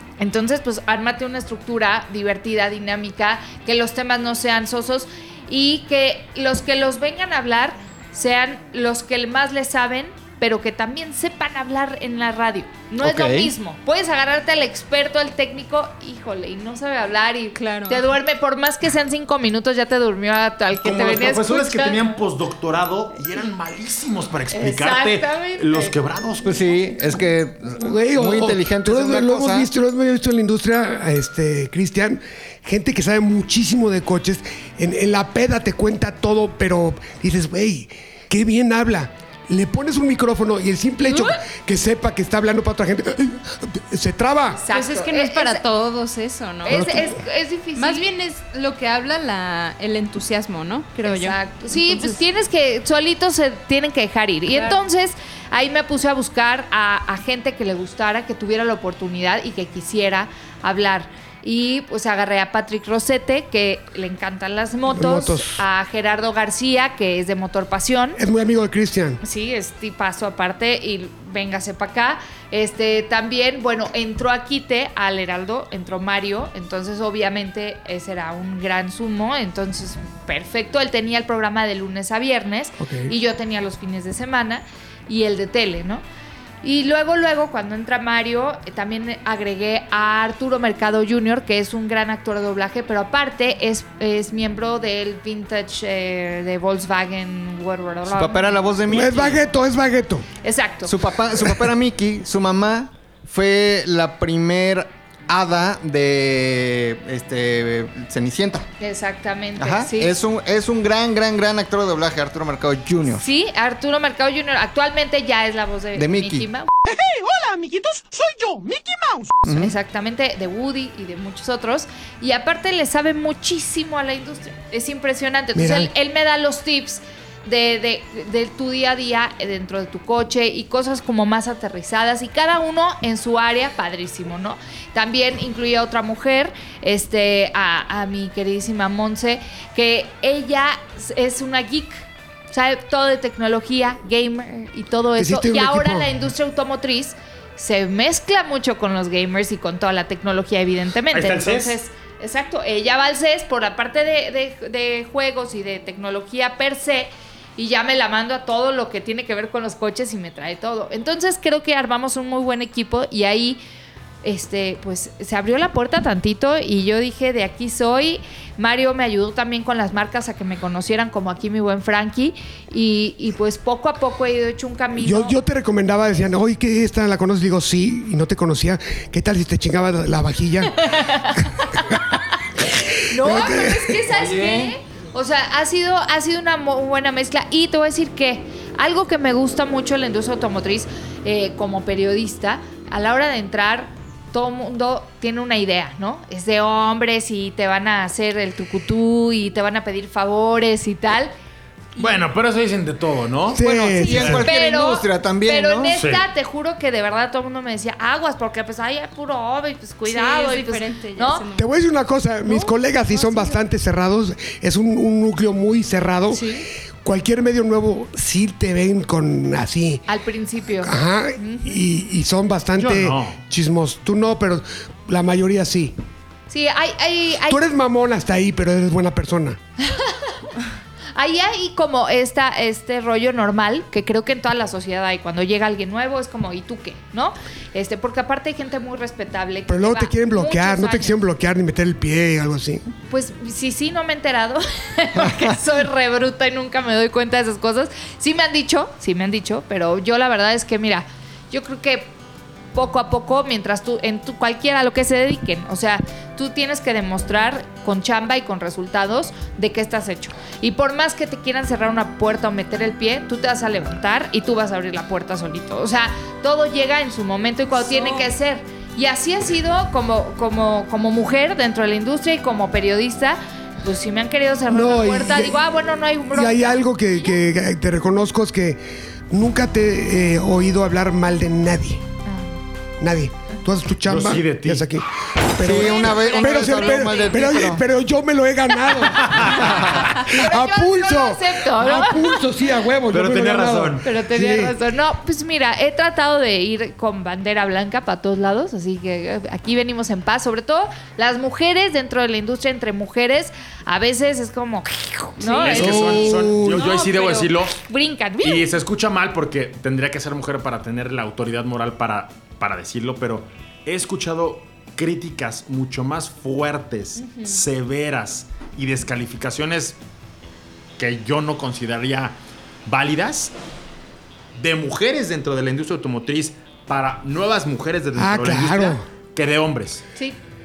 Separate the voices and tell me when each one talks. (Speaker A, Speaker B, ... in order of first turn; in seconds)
Speaker A: 0.2-22.1, 24.5-25.9, 44.6-45.6, 46.6-48.1, 51.0-68.2, 69.2-86.0, 86.6-98.7, 100.4-101.0, 108.8-110.2, 113.1-116.7, 119.5-163.6, 164.2-175.4, 180.8-181.8, 183.1-201.3, 203.9-211.5, 212.5-213.6, 216.3-216.7, 220.1-221.8, 226.5-227.6, 229.8-230.3, 231.2-241.2, 243.1-252.1, 252.7-276.9, 282.2-282.6, 290.1-292.4, 294.0-308.7
Speaker B: 13.0-13.5, 26.4-29.7, 98.1-99.4, 100.8-108.7, 109.6-113.2, 116.0-116.5, 119.5-119.7, 184.1-184.7, 203.6-206.0, 285.6-287.9
Speaker C: 17.6-18.1, 44.7-47.0, 47.8-52.2, 54.5-54.8, 210.1-211.7, 267.8-268.3, 285.8-287.2
Speaker D: 20.8-26.8, 116.9-119.3, 151.1-151.8, 202.0-204.4, 206.0-206.2, 222.8-223.4, 284.1-284.9, 289.1-290.0, 293.1-294.1, 305.5-307.8, 308.4-320.0, 321.0-323.5, 324.6-330.1
Speaker E: 27.8-44.6, 46.7-47.1, 64.9-65.6, 68.2-69.2, 82.8-83.1, 98.9-100.3, 125.5-125.9, 145.2-146.1, 175.0-182.0, 182.8-184.0, 203.5-204.4, 211.6-216.5, 217.0-220.0, 220.8-225.9, 227.5-229.6, 239.7-242.8, 274.7-275.6, 276.3-282.0, 283.0-294.8, 305.7-306.9, 328.2-329.0